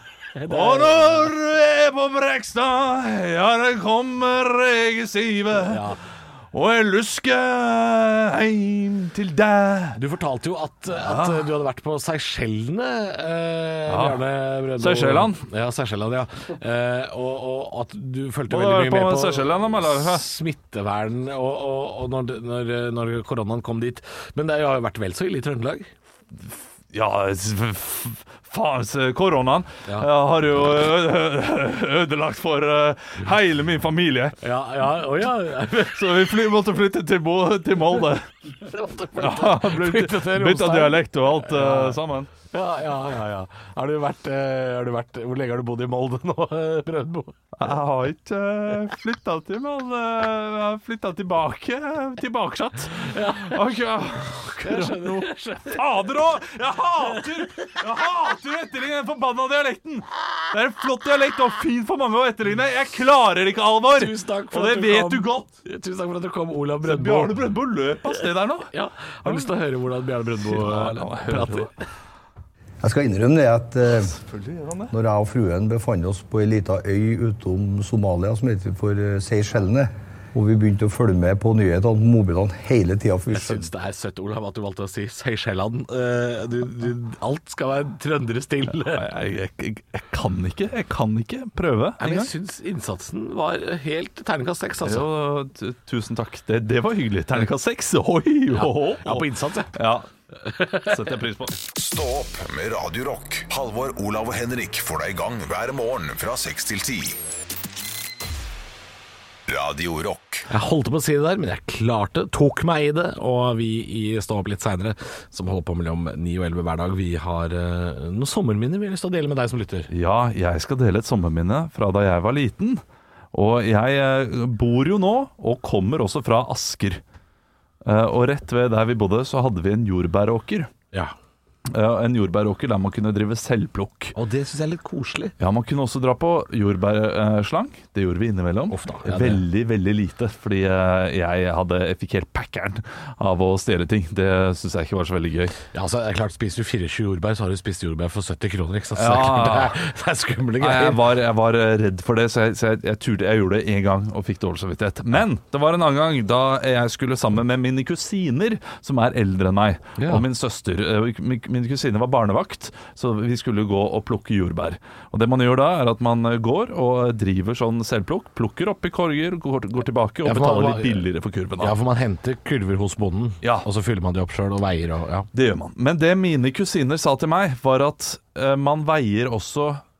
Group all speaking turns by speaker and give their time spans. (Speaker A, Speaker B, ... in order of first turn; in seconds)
Speaker A: 0.3-1.3, 5.6-6.0, 9.9-25.9, 34.4-36.3, 38.6-47.4, 53.1-53.6, 54.6-55.9, 63.9-67.5, 68.7-71.7, 83.3-89.0, 92.0-95.1, 98.5-99.7, 100.4-101.0, 110.5-119.9, 134.1-135.3, 138.7-139.4, 145.7-151.0, 160.0-160.2, 170.2-171.1, 171.6-175.3
Speaker B: 0.5-5.8, 6.5-10.0, 10.9-11.5, 13.9-14.2, 14.8-15.4, 18.5-20.2, 26.5-34.4, 35.8-38.3, 39.1-42.3, 47.5-65.5, 66.8-68.7, 69.2-69.5, 70.4-71.7, 74.1-74.9, 88.7-92.3, 94.8-100.1, 100.8-101.6, 119.9-122.8, 123.3-127.0, 127.8-130.7, 131.7-134.1, 135.4-145.6, 148.9-149.8, 150.6-171.8, 175.3-179.8
Speaker C: 72.8-74.2, 74.9-83.7
Speaker D: 101.7-107.2, 109.5-110.5